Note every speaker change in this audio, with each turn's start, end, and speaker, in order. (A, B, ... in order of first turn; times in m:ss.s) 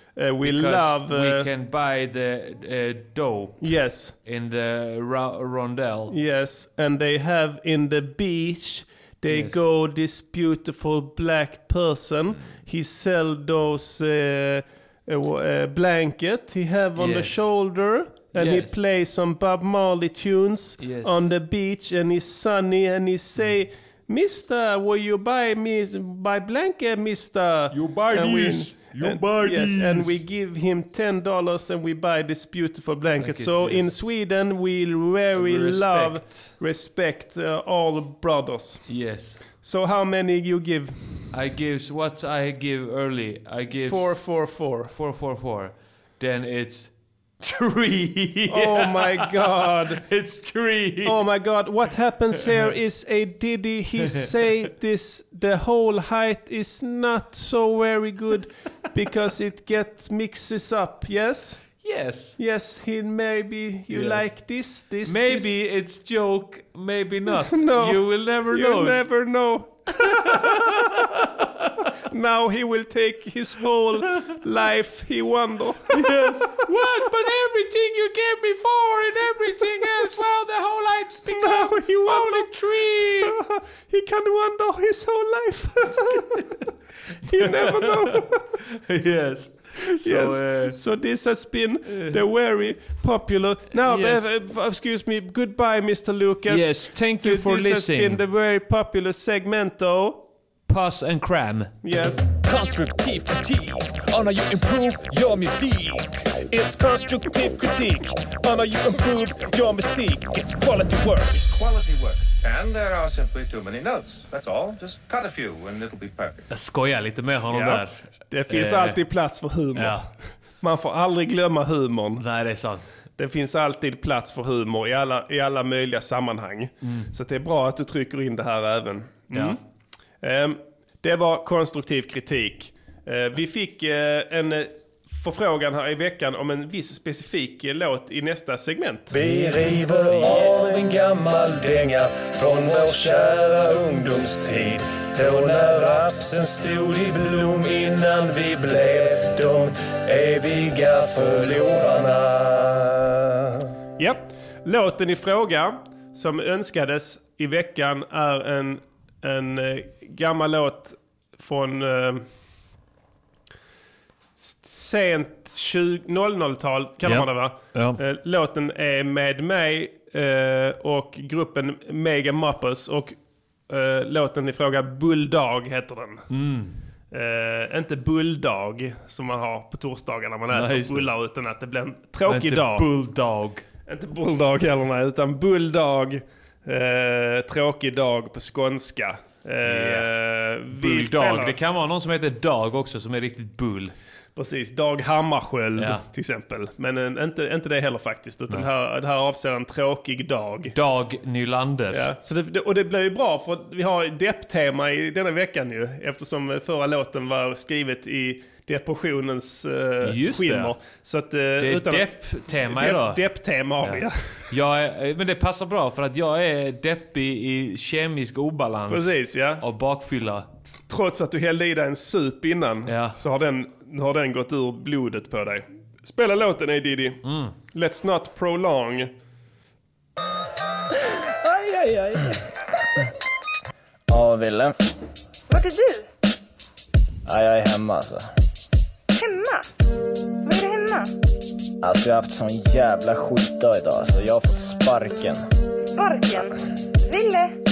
0:00.2-0:01.5 A
0:00.4-0:06.1 B
0:03.6-0:04.1 A
0:06.1-0:39.0 A
0:09.3-0:09.6 B
0:17.0-0:17.4 B
0:18.3-0:18.8 B
0:20.8-0:21.2 B
0:27.7-0:30.2 B
0:27.9-0:28.6 C
0:33.2-0:33.9 B
0:35.3-0:36.6 B
0:38.9-0:39.4 B
0:39.5-0:41.2 A
0:41.3-0:51.3 B
0:43.8-0:44.9 A
0:48.5-0:50.0 A
0:51.0-1:01.8 A
0:54.1-0:54.6 B
1:01.8-1:02.4 B
1:02.4-1:05.6 A
1:03.9-1:04.5 B
1:05.0-1:09.1 B
1:07.4-1:10.8 A
1:10.4-1:10.8 B
1:12.1-1:16.1 A
1:15.9-1:23.3 B
1:21.3-1:22.5 A
1:23.2-1:26.4 A
1:27.3-1:28.4 A
1:27.4-1:28.2 B
1:28.9-1:30.8 B
1:29.9-1:40.2 A
1:31.9-1:32.2 B
1:33.8-1:34.2 B
1:36.5-1:38.2 B
1:40.7-1:41.7 B
1:41.8-1:42.2 A
1:42.4-1:51.4 C
1:51.4-1:56.4 D
1:56.5-1:59.0 B
1:57.5-2:00.0 A
1:59.7-2:00.0 B
2:00.6-2:02.2 A
2:02.2-2:02.9 B
2:03.2-2:09.6 A
2:06.8-2:07.1 B
2:09.3-2:09.6 B
2:10.2-2:19.1 A
2:19.1-2:33.3 C
2:34.0-2:42.2 A
2:44.4-2:53.2 A
2:47.0-2:48.0 B
2:53.7-2:56.2 A
2:56.3-2:56.7 B
2:57.1-3:02.8 A
3:00.5-3:01.1 B
3:02.2-3:03.6 B
3:03.9-3:11.6 A
3:09.6-3:10.1 B
3:10.7-3:13.9 B
3:14.4-3:20.7 A
3:15.8-3:16.0 B
3:20.7-3:22.1 B
3:21.9-3:34.4 A
3:30.0-3:30.7 B
3:31.6-3:33.2 B
3:33.8-3:40.5 B
3:38.9-3:39.6 A
3:40.9-3:49.1 A
3:42.8-3:43.2 B
3:47.2-3:47.5 B
3:51.4-3:52.3 E
3:54.1-3:54.7 E
3:55.5-3:56.0 F
3:57.2-3:58.3 E
3:59.1-3:59.6 F
4:00.4-4:01.1 F
4:01.8-4:05.4 E
4:06.0-4:07.5 F